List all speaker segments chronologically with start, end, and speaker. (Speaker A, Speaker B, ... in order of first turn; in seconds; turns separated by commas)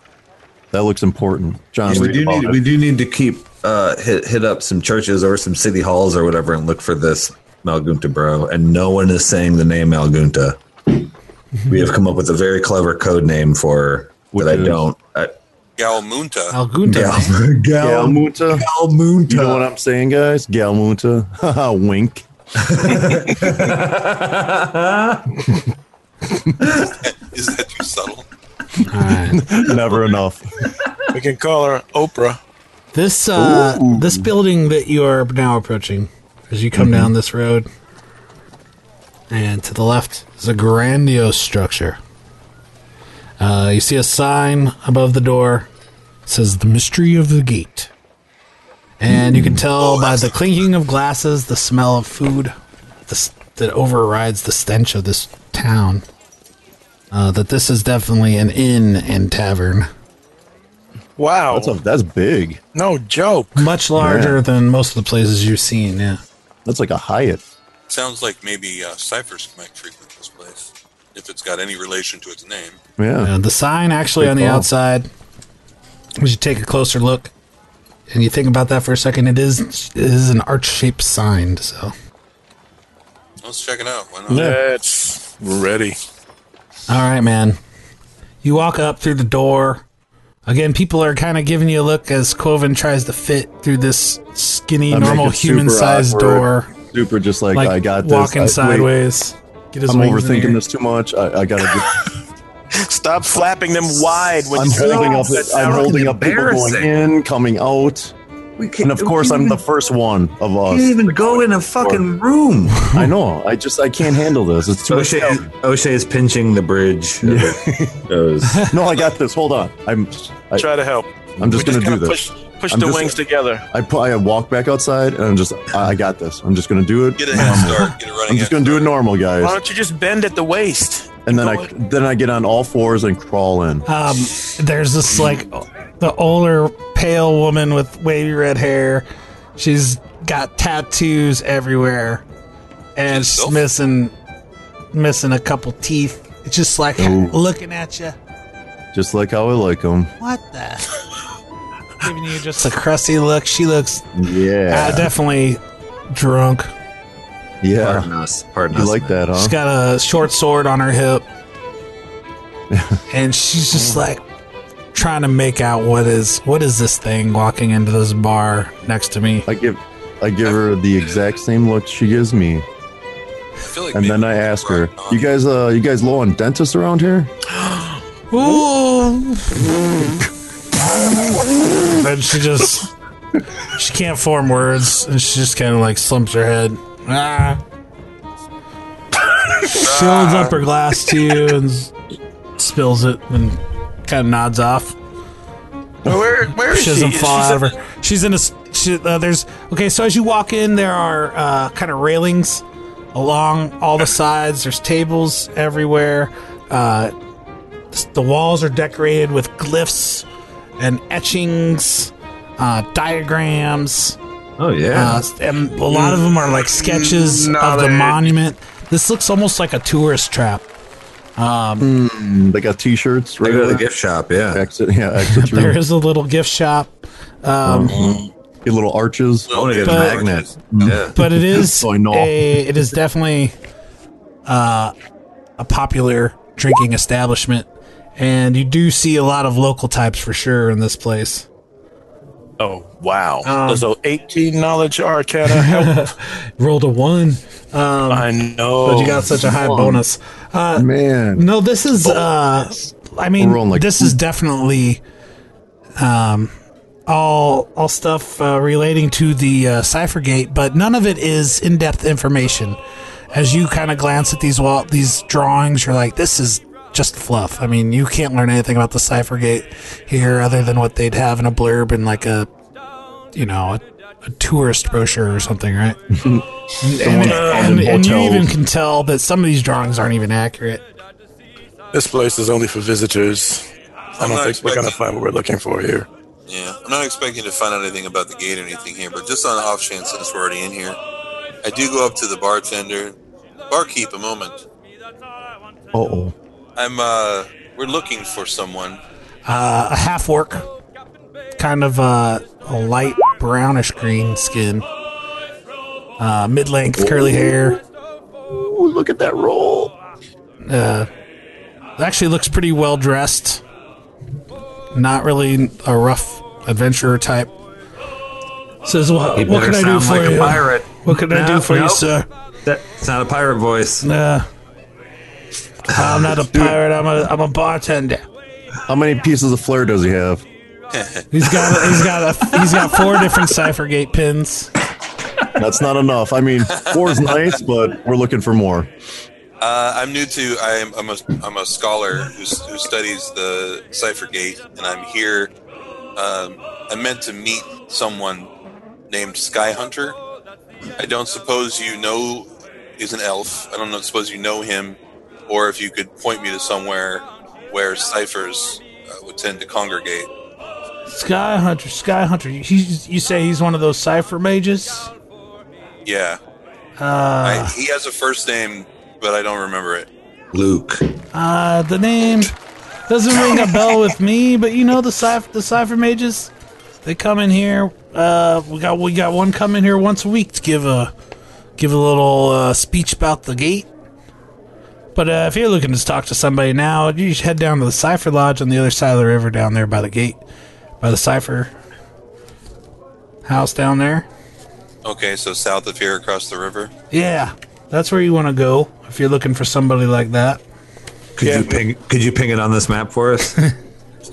Speaker A: 0.7-2.6, Speaker B: 1.8-11.1, Speaker B: 11.7-15.3, Speaker A: 14.3-14.8, Speaker C: 15.8-16.5, Speaker D: 16.5-17.4, Speaker B: 16.9-19.7, Speaker A: 17.8-18.6, Speaker A: 19.3-22.2, Speaker B: 22.6-25.5, Speaker B: 26.6-26.9, Speaker C: 27.0-28.3, Speaker D: 28.9-29.4, Speaker A: 29.3-30.4, Speaker E: 31.1-32.4, Speaker D: 32.9-37.7, Speaker A: 33.4-34.3, Speaker A: 36.7-37.1, Speaker D: 39.3-42.0, Speaker D: 43.4-45.7, Speaker D: 46.2-47.9, Speaker D: 49.0-52.5, Speaker A: 49.1-49.6, Speaker C: 49.8-50.4, Speaker D: 53.1-56.0, Speaker D: 57.1-59.9, Speaker E: 61.2-61.8, Speaker A: 61.5-62.6, Speaker E: 62.7-63.7, Speaker D: 63.5-66.2, Speaker A: 64.0-64.4, Speaker A: 66.6-67.4, Speaker C: 67.9-72.8, Speaker A: 73.0-73.3, Speaker D: 73.2-75.1, Speaker A: 74.2-74.7, Speaker D: 76.2-77.3, Speaker D: 78.1-81.9, Speaker C: 83.4-84.5, Speaker E: 84.3-86.0, Speaker A: 84.3-84.6, Speaker D: 86.9-87.6, Speaker D: 88.4-89.8, Speaker D: 90.5-96.7, Speaker A: 94.9-98.9, Speaker D: 97.5-100.6, Speaker A: 99.9-102.0, Speaker E: 102.7-106.0, Speaker A: 104.5-108.1, Speaker B: 104.6-106.9, Speaker B: 108.6-109.6, Speaker A: 108.8-112.0, Speaker B: 110.7-112.9, Speaker A: 112.9-115.5, Speaker B: 114.9-118.8, Speaker A: 117.2-118.0, Speaker A: 118.7-120.7, Speaker E: 120.5-123.6, Speaker A: 121.4-123.2, Speaker A: 123.7-129.6, Speaker C: 127.2-128.9, Speaker D: 127.3-127.9, Speaker E: 129.4-131.7, Speaker A: 131.2-133.8, Speaker D: 133.9-139.1, Speaker D: 139.6-142.2, Speaker D: 142.9-144.1, Speaker C: 143.1-143.6, Speaker D: 144.9-148.2, Speaker A: 147.0-147.4, Speaker A: 148.9-150.1, Speaker D: 150.2-150.9, Speaker D: 152.0-154.1, Speaker A: 154.1-155.1, Speaker D: 154.7-155.6, Speaker D: 156.1-156.7, Speaker A: 157.6-158.1, Speaker B: 157.8-159.2, Speaker A: 158.7-159.6, Speaker D: 159.3-161.2, Speaker A: 162.7-163.0, Speaker D: 163.1-164.2, Speaker D: 164.9-169.5, Speaker A: 169.4-172.6, Speaker C: 170.4-171.2, Speaker C: 173.7-175.3, Speaker A: 173.9-177.3, Speaker D: 178.3-179.7, Speaker D: 181.9-182.9, Speaker D: 183.6-187.6, Speaker D: 189.7-191.9, Speaker C: 189.8-190.6, Speaker D: 192.6-194.9, Speaker E: 196.0-197.7, Speaker D: 196.6-202.6, Speaker D: 203.1-207.1, Speaker D: 207.9-210.2, Speaker D: 210.8-214.2, Speaker B: 214.6-215.2, Speaker D: 214.9-220.7, Speaker E: 216.8-218.3, Speaker D: 221.4-221.9, Speaker A: 221.8-223.8, Speaker B: 223.4-224.6, Speaker A: 224.5-225.8, Speaker D: 225.3-226.9, Speaker D: 227.4-228.0, Speaker A: 227.6-229.5, Speaker C: 229.5-231.0, Speaker B: 229.5-231.1, Speaker D: 229.8-230.2, Speaker A: 230.7-232.6, Speaker D: 231.1-233.5, Speaker D: 234.4-234.9, Speaker D: 235.6-241.4, Speaker E: 242.6-246.1, Speaker D: 243.4-243.9, Speaker D: 245.4-255.0, Speaker E: 248.1-249.3, Speaker A: 249.4-250.0, Speaker A: 250.7-251.5, Speaker A: 253.4-254.2, Speaker D: 256.0-256.5, Speaker D: 257.1-262.8, Speaker D: 263.3-272.5, Speaker D: 273.3-276.0, Speaker A: 276.1-278.5, Speaker D: 276.8-280.8, Speaker E: 277.3-277.8, Speaker E: 281.9-286.1, Speaker C: 284.2-285.0, Speaker C: 286.5-291.0, Speaker C: 291.6-293.1, Speaker C: 293.7-294.6, Speaker A: 295.9-296.3, Speaker C: 296.8-299.0, Speaker D: 299.4-300.6, Speaker D: 301.6-304.9, Speaker D: 306.2-307.8, Speaker A: 306.9-307.8, Speaker A: 308.4-309.9, Speaker D: 310.6-311.1, Speaker D: 312.0-313.6, Speaker D: 314.9-317.5, Speaker D: 318.8-322.3, Speaker B: 319.3-322.1, Speaker B: 322.6-324.1, Speaker D: 324.0-324.4, Speaker D: 325.9-328.2, Speaker A: 326.5-326.8, Speaker A: 328.9-330.4, Speaker C: 330.9-331.2, Speaker D: 331.3-334.7, Speaker A: 335.5-338.9, Speaker C: 336.8-337.4, Speaker C: 339.6-345.5, Speaker C: 346.1-348.5, Speaker C: 349.1-350.2, Speaker C: 351.0-352.5, Speaker C: 353.0-360.3, Speaker D: 361.1-365.1, Speaker C: 366.0-366.4, Speaker D: 367.0-367.7, Speaker C: 367.4-370.1, Speaker B: 370.5-371.1, Speaker D: 371.3-372.5, Speaker D: 373.1-376.5, Speaker D: 377.0-381.1, Speaker D: 381.8-383.9, Speaker D: 385.1-390.4, Speaker D: 391.0-391.7, Speaker D: 393.4-394.3, Speaker C: 395.0-396.9, Speaker D: 397.1-400.6, Speaker B: 401.4-403.7, Speaker E: 401.4-401.8